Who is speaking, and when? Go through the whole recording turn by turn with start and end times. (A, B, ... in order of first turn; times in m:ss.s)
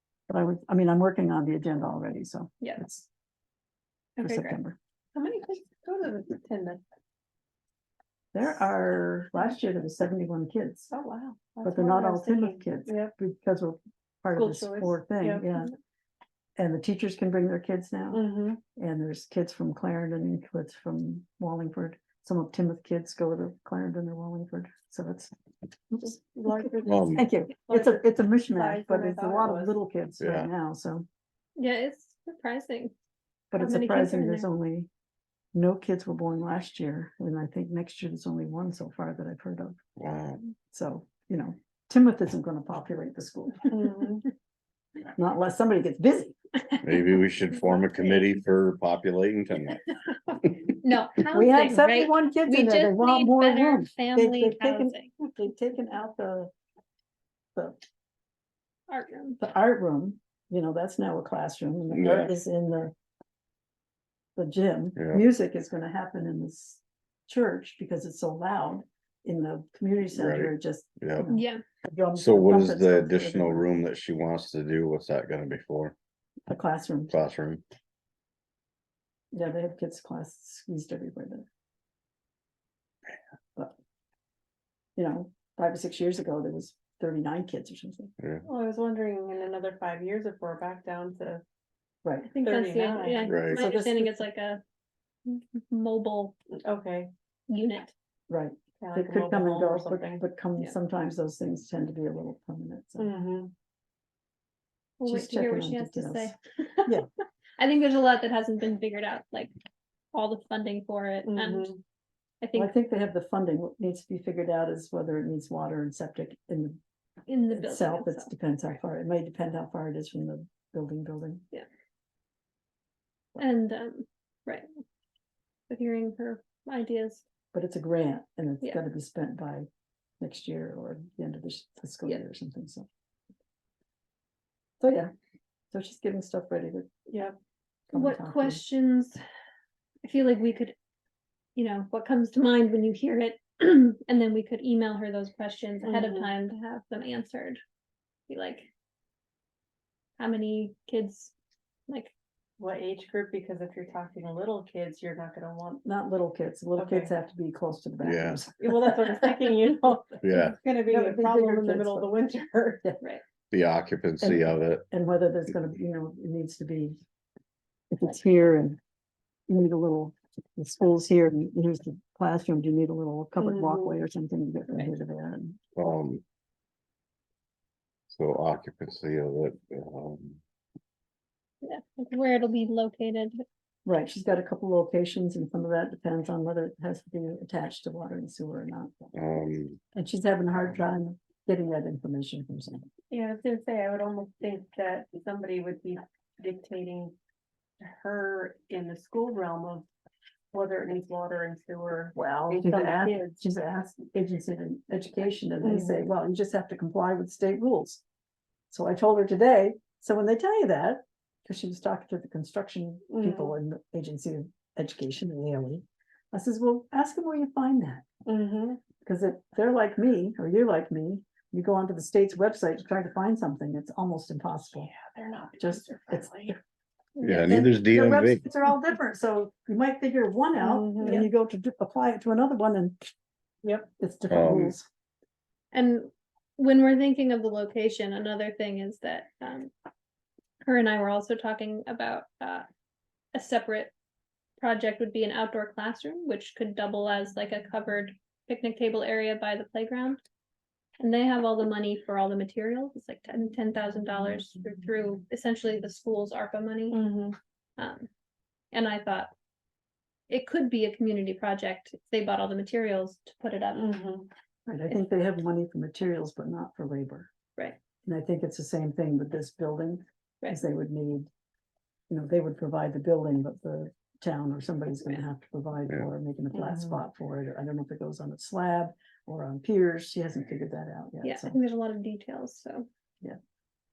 0:00.3-0:03.1 A
0:04.2-0:04.6 B
0:04.2-0:04.8 A
0:05.1-0:06.8 C
0:08.3-0:10.9 A
0:10.9-0:13.1 C
0:11.6-0:15.7 A
0:14.3-0:15.5 C
0:16.6-0:25.3 A
0:18.1-0:18.6 C
0:25.9-0:31.1 A
0:26.0-0:29.8 C
0:26.8-0:27.2 D
0:30.2-0:30.5 D
0:31.6-0:32.9 B
0:33.5-0:34.9 A
0:33.6-0:34.5 B
0:35.5-0:39.8 A
0:40.0-0:40.4 D
0:40.7-0:44.0 A
0:43.7-0:44.2 C
0:45.1-0:46.4 A
0:46.8-0:49.8 D
0:50.7-0:55.1 B
0:51.3-0:56.5 A
0:58.9-0:59.4 B
0:59.4-1:02.9 A
1:01.9-1:02.4 D
1:04.4-1:13.6 A
1:05.0-1:05.2 D
1:10.1-1:11.2 D
1:11.3-1:11.6 B
1:12.1-1:15.9 D
1:16.5-1:17.1 A
1:17.1-1:17.6 D
1:19.3-1:21.4 A
1:25.0-1:28.1 A
1:28.2-1:28.4 D
1:28.4-1:31.4 C
1:32.0-1:32.3 A
1:32.2-1:34.6 B
1:32.4-1:33.6 C
1:33.3-1:33.6 D
1:33.5-1:34.2 A
1:35.2-1:36.4 B
1:36.5-1:37.1 C
1:37.5-1:37.9 B
1:38.3-1:43.1 A
1:38.8-1:40.2 C
1:43.0-1:43.5 C
1:45.0-1:47.0 B
1:45.0-1:46.3 A
1:47.6-1:49.5 B
1:50.1-1:51.8 B
1:51.2-1:51.8 C
1:52.4-1:52.7 B
1:52.5-1:56.8 A
1:57.3-1:58.3 B
1:57.5-2:01.4 A
2:03.4-2:04.6 B
2:05.7-2:07.2 B
2:07.5-2:09.7 A
2:10.2-2:12.9 A
2:14.8-2:15.1 A
2:15.7-2:16.9 A
2:17.1-2:17.4 C
2:17.9-2:18.6 A
2:17.9-2:19.2 B
2:20.0-2:20.7 B
2:21.6-2:27.6 B
2:25.8-2:26.3 C
2:28.3-2:28.7 B
2:30.2-2:31.3 B
2:32.6-2:35.8 C
2:35.8-2:39.4 A
2:36.8-2:37.1 C
2:38.0-2:38.4 D
2:38.6-2:42.8 C
2:40.2-2:40.6 D
2:40.8-2:42.2 A
2:43.5-2:44.8 D
2:44.2-2:47.0 A
2:47.9-2:48.8 A
2:49.5-2:55.6 A
2:53.4-2:54.0 C
2:55.7-2:56.2 D
2:58.1-3:00.4 D
3:01.6-3:03.4 B
3:03.8-3:09.1 A
3:09.1-3:09.8 D
3:09.9-3:12.9 A
3:13.1-3:17.2 C
3:17.8-3:19.9 C
3:20.5-3:23.4 C
3:22.1-3:28.0 A
3:25.6-3:26.0 C
3:28.7-3:38.0 A
3:33.1-3:33.5 C
3:38.2-3:38.8 C
3:39.0-3:44.9 A
3:44.9-3:46.6 C
3:45.6-3:46.6 A
3:47.2-3:47.8 B
3:47.2-3:48.4 D
3:47.8-3:53.1 A
3:50.6-3:51.2 C
3:51.0-3:51.3 B
3:53.6-3:53.9 C
3:54.0-3:54.9 A
3:54.3-3:54.8 D
3:55.7-3:59.7 B
4:00.6-4:02.6 B
4:03.3-4:03.9 B
4:04.6-4:10.2 B
4:11.0-4:17.0 B
4:16.9-4:17.4 C
4:17.8-4:18.1 B
4:18.7-4:19.3 B
4:20.3-4:23.9 B
4:23.7-4:24.3 C
4:24.7-4:27.3 A
4:28.0-4:31.3 A
4:32.1-4:41.6 A
4:36.5-4:37.0 C
4:41.2-4:42.9 B